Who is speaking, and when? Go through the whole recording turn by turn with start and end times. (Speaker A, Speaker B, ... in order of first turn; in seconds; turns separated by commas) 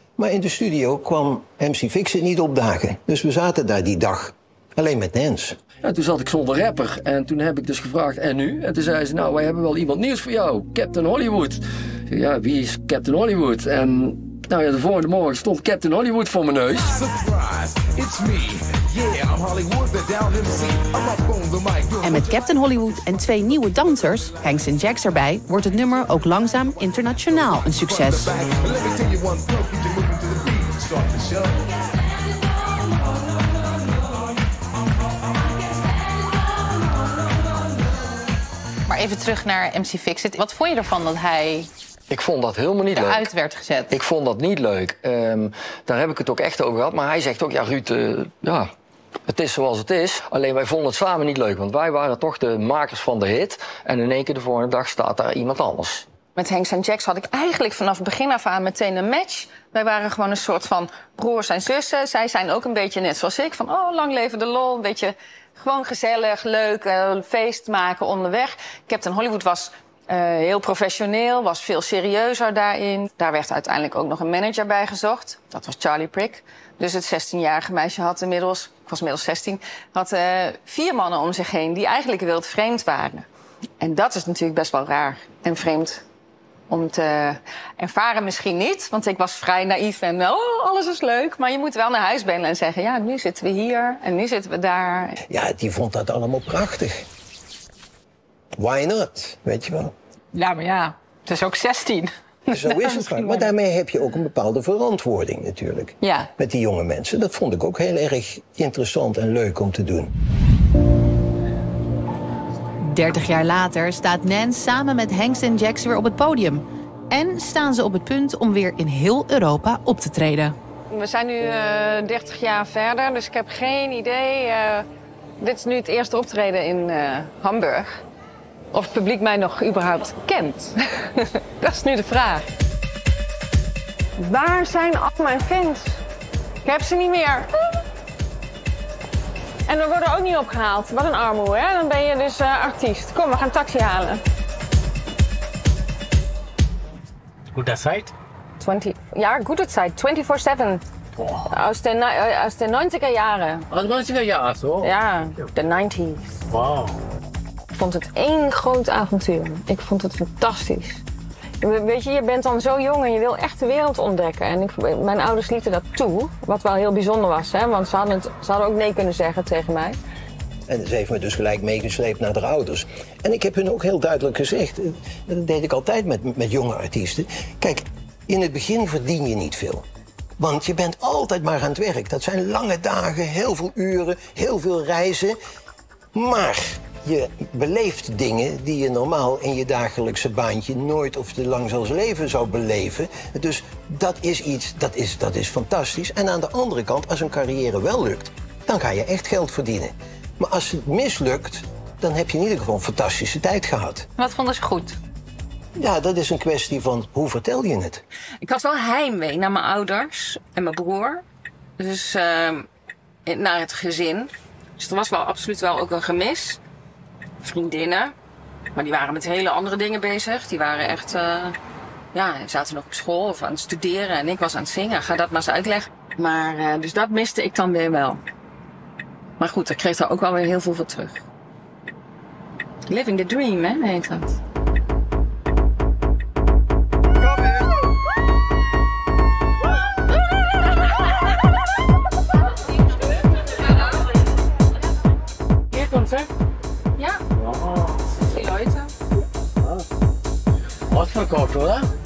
Speaker A: 0.2-5.6, Speaker B: 5.8-16.9, Speaker C: 16.9-22.4, Speaker D: 22.0-28.4, Speaker C: 27.8-31.8, Speaker E: 38.9-41.7, Speaker B: 42.1-43.3, Speaker E: 42.9-43.9, Speaker B: 43.9-48.7, Speaker B: 49.3-56.1, Speaker F: 56.4-83.3, Speaker F: 83.8-86.0, Speaker F: 86.7-95.2, Speaker A: 95.3-97.1, Speaker A: 98.6-99.9, Speaker F: 100.3-103.4, Speaker A: 102.5-110.1, Speaker F: 106.0-106.3, Speaker D: 112.8-120.6, Speaker F: 120.9-124.9, Speaker F: 125.4-127.9, Speaker F: 128.7-132.4, Speaker F: 134.2-136.0, Speaker F: 136.6-137.5, Speaker F: 139.7-144.2, Speaker G: 147.5-148.1, Speaker F: 148.6-150.8, Speaker F: 151.5-153.7, Speaker G: 153.7-154.9, Speaker F: 154.8-156.4, Speaker G: 156.5-157.0, Speaker F: 157.7-161.0, Speaker F: 161.6-170.0, Speaker A: 170.7-179.8, Speaker A: 180.4-185.4, Speaker A: 186.1-204.1, Speaker E: 204.2-205.0, Speaker A: 205.8-208.0, Speaker F: 208.4-211.2, Speaker F: 211.8-212.7, Speaker F: 213.3-216.6, Speaker F: 217.4-218.1, Speaker F: 218.8-221.6, Speaker F: 222.1-228.2, Speaker F: 229.4-231.2, Speaker F: 232.9-234.4, Speaker G: 245.7-246.2, Speaker G: 247.4-248.0, Speaker F: 248.2-248.9, Speaker G: 250.9-251.9